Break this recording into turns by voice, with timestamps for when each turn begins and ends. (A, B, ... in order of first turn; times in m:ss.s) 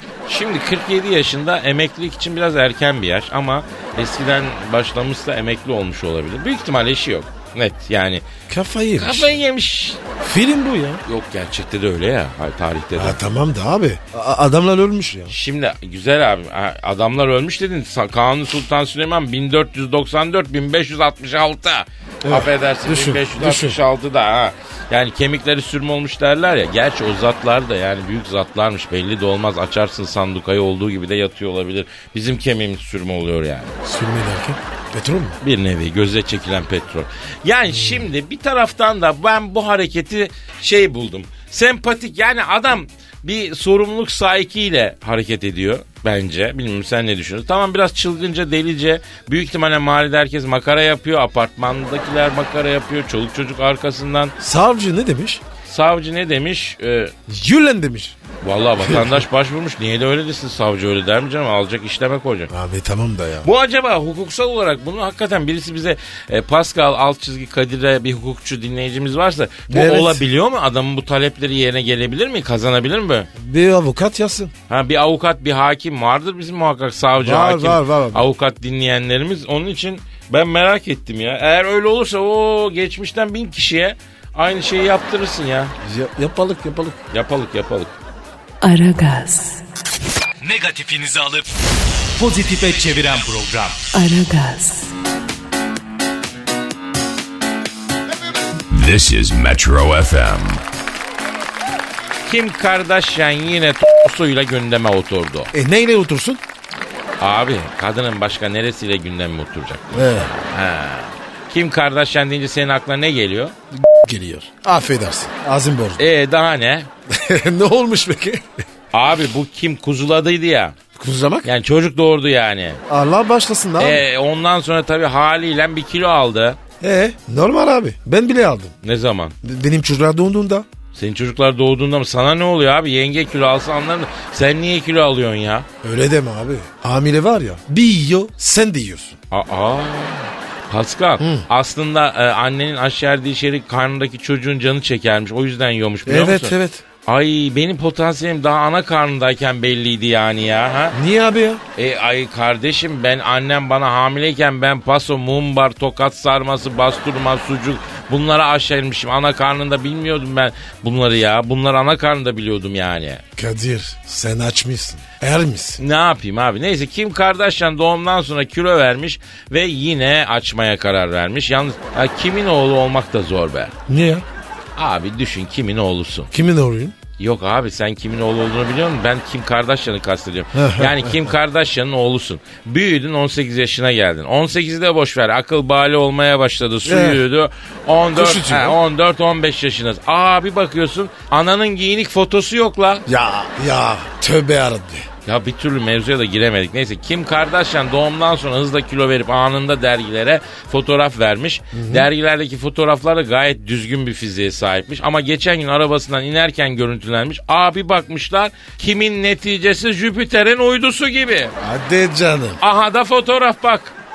0:00.3-0:08.2 A
0:08.5-0:09.4 B
0:09.0-0:10.0 A
0:10.2-0:11.0 B
0:11.0-0:13.2 A
0:13.0-0:15.3 B
0:15.3-0:33.7 A
0:22.2-0:23.8 B
0:33.8-0:35.4 B
0:35.4-0:54.3 A
0:37.7-0:38.1 B
0:54.4-0:55.4 B
0:55.7-0:57.1 A
0:57.3-0:58.2 B
0:58.4-1:02.5 A
0:58.8-0:59.2 B
1:02.5-1:03.5 B
1:03.4-1:13.3 A
1:09.7-1:10.2 B
1:13.4-1:14.5 B
1:14.7-1:25.7 A
1:17.2-1:18.3 B
1:25.8-1:27.0 B
1:27.1-1:28.0 A
1:28.6-1:29.6 C
1:30.4-1:31.5 D
1:32.1-1:33.8 D
1:33.9-1:34.9 C
1:38.7-1:40.6 E
1:42.2-1:45.5 A
1:45.5-1:46.4 B
1:47.2-1:53.5 A
1:49.9-1:50.3 B
1:53.7-1:56.0 B
1:56.0-1:56.9 A
1:57.1-1:58.5 B
1:58.9-2:00.8 A
2:00.9-2:01.5 B
2:01.4-2:02.8 A
2:02.9-2:04.0 B
2:03.8-2:06.6 A
2:06.8-2:08.7 B
2:08.8-2:09.3 A
2:09.4-2:10.6 B
2:10.9-2:15.7 A
2:15.8-2:19.2 B
2:19.3-2:31.0 A
2:21.2-2:21.4 B
2:26.0-2:26.8 B
2:30.9-2:31.6 B
2:31.8-2:43.2 A
2:43.4-2:45.8 B
2:45.8-2:53.8 A
2:53.9-2:54.2 B
2:54.8-2:56.3 A
2:56.3-2:57.0 B
2:57.2-3:13.0 A
3:00.5-3:01.3 B
3:06.8-3:07.2 B
3:08.1-3:08.8 B
3:13.0-3:15.1 B
3:15.2-3:31.5 A
3:21.7-3:22.1 B
3:31.6-3:32.6 B
3:32.6-3:33.9 A